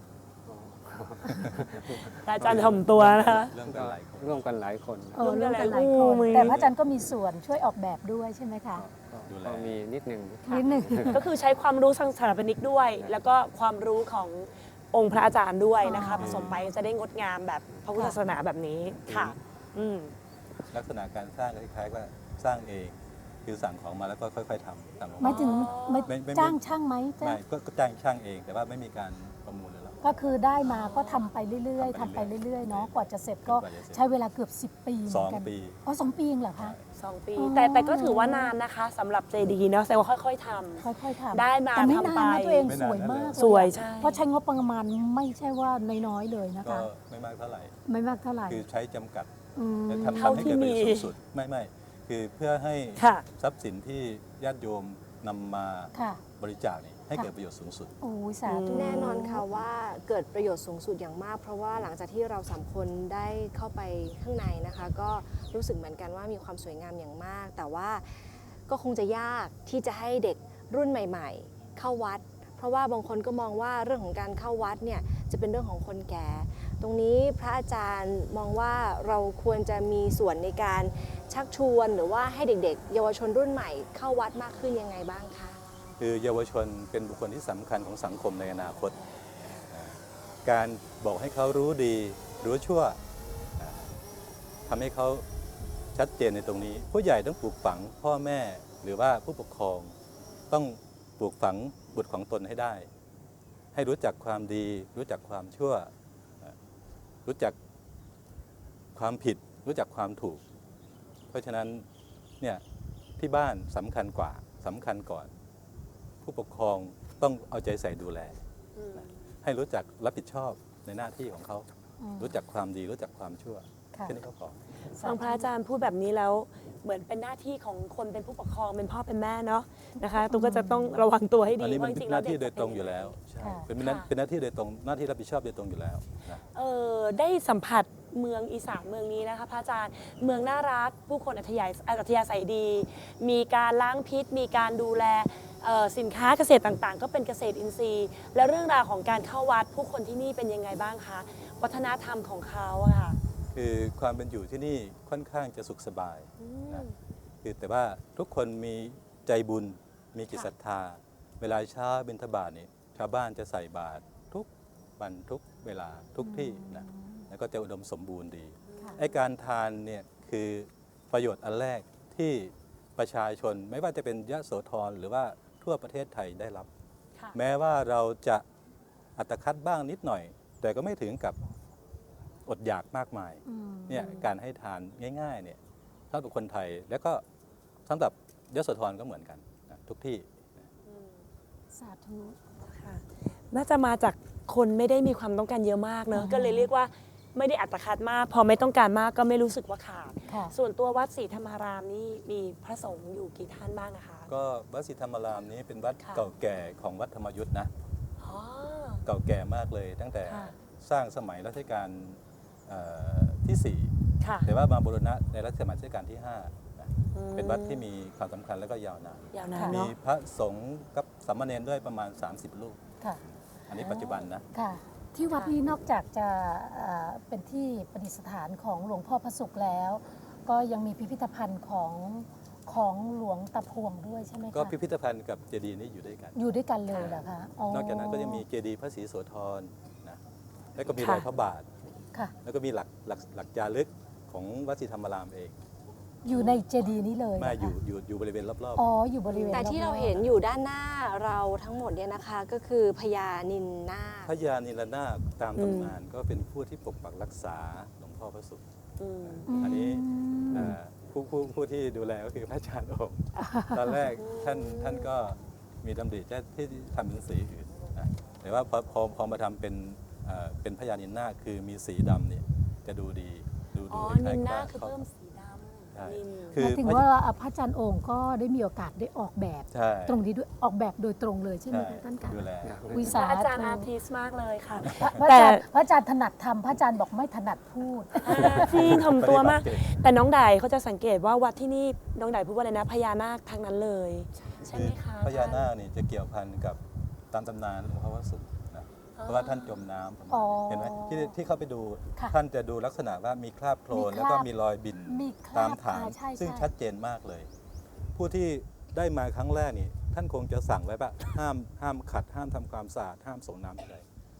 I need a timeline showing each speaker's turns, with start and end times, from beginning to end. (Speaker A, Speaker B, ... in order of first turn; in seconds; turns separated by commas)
Speaker A: 0.5-2.9, Speaker B: 2.2-3.5, Speaker C: 2.4-4.4, Speaker A: 3.5-5.8, Speaker D: 5.2-8.8, Speaker B: 5.2-6.7, Speaker C: 6.3-6.7, Speaker A: 8.8-11.3, Speaker C: 9.3-9.8, Speaker D: 10.5-11.2, Speaker B: 11.1-20.1, Speaker D: 15.8-16.6, Speaker C: 16.0-16.6, Speaker C: 19.1-19.4, Speaker C: 20.7-26.6, Speaker D: 25.2-27.4, Speaker B: 25.2-26.1, Speaker C: 27.2-30.0, Speaker D: 30.0-36.8, Speaker B: 30.6-31.3, Speaker C: 31.8-34.0, Speaker C: 35.1-35.8, Speaker C: 36.6-36.9, Speaker B: 37.0-42.8, Speaker D: 37.4-38.5, Speaker D: 40.8-46.9, Speaker C: 42.7-43.4, Speaker B: 43.4-44.2, Speaker C: 46.6-47.8, Speaker D: 47.9-48.6, Speaker C: 48.5-49.3, Speaker D: 49.5-50.5, Speaker C: 49.9-57.9, Speaker B: 50.1-51.1, Speaker B: 53.0-53.3, Speaker D: 55.9-56.2, Speaker D: 58.0-59.5, Speaker B: 58.5-59.3, Speaker E: 58.7-85.6, Speaker C: 86.0-89.0, Speaker C: 89.7-93.0, Speaker C: 93.6-93.9, Speaker C: 94.7-95.3, Speaker C: 96.0-100.0, Speaker C: 100.5-102.9, Speaker C: 103.7-106.5, Speaker C: 107.3-107.6, Speaker C: 109.0-110.4, Speaker C: 111.3-111.9, Speaker C: 113.2-115.3, Speaker C: 116.2-118.4, Speaker B: 118.8-119.1, Speaker C: 118.9-121.7, Speaker D: 122.0-122.4, Speaker C: 122.2-124.6, Speaker D: 125.0-125.5, Speaker B: 125.0-133.2, Speaker D: 130.2-131.1, Speaker C: 131.6-136.4, Speaker D: 133.4-133.7, Speaker B: 133.8-134.1, Speaker B: 136.5-153.2, Speaker C: 153.5-156.9, Speaker B: 156.4-157.0, Speaker C: 157.4-164.5, Speaker C: 165.0-176.7, Speaker D: 166.2-167.3, Speaker B: 168.7-169.2, Speaker C: 177.3-178.4, Speaker C: 179.2-181.4, Speaker C: 182.5-185.6, Speaker D: 183.4-184.2, Speaker C: 186.1-187.2, Speaker C: 187.9-190.7, Speaker B: 190.9-191.2, Speaker D: 191.7-192.4, Speaker B: 192.6-204.3, Speaker D: 196.1-196.7, Speaker D: 200.3-200.5, Speaker C: 204.3-207.7, Speaker B: 206.0-206.3, Speaker B: 208.2-209.0, Speaker C: 209.1-222.8, Speaker B: 210.3-210.5, Speaker B: 214.2-214.5, Speaker B: 217.1-217.8, Speaker B: 219.3-219.9, Speaker D: 219.6-219.8, Speaker C: 223.7-224.5, Speaker B: 223.8-224.3, Speaker D: 224.5-234.8, Speaker B: 225.3-225.6, Speaker C: 234.5-236.4, Speaker D: 236.3-238.4, Speaker B: 236.9-237.2, Speaker C: 237.7-240.2, Speaker C: 240.8-241.7, Speaker B: 241.0-241.3, Speaker C: 242.4-245.6, Speaker D: 246.2-247.8, Speaker B: 246.3-246.6, Speaker C: 247.4-248.9, Speaker D: 248.8-250.2, Speaker B: 249.3-249.6, Speaker E: 249.5-254.3, Speaker C: 254.2-258.6, Speaker B: 255.6-256.0, Speaker B: 259.0-259.7, Speaker C: 259.2-275.0, Speaker D: 259.5-260.8, Speaker D: 263.4-263.9, Speaker B: 264.2-265.1, Speaker B: 273.9-276.6, Speaker C: 275.9-277.1, Speaker D: 276.6-283.9, Speaker C: 279.7-280.2, Speaker C: 281.7-282.8, Speaker A: 282.6-283.2, Speaker B: 283.1-285.6, Speaker D: 284.8-289.0, Speaker B: 288.2-295.7, Speaker C: 288.4-290.0, Speaker C: 294.7-307.5, Speaker B: 299.2-299.8, Speaker D: 300.3-301.4, Speaker D: 303.9-304.5, Speaker D: 305.1-306.7, Speaker C: 308.1-314.1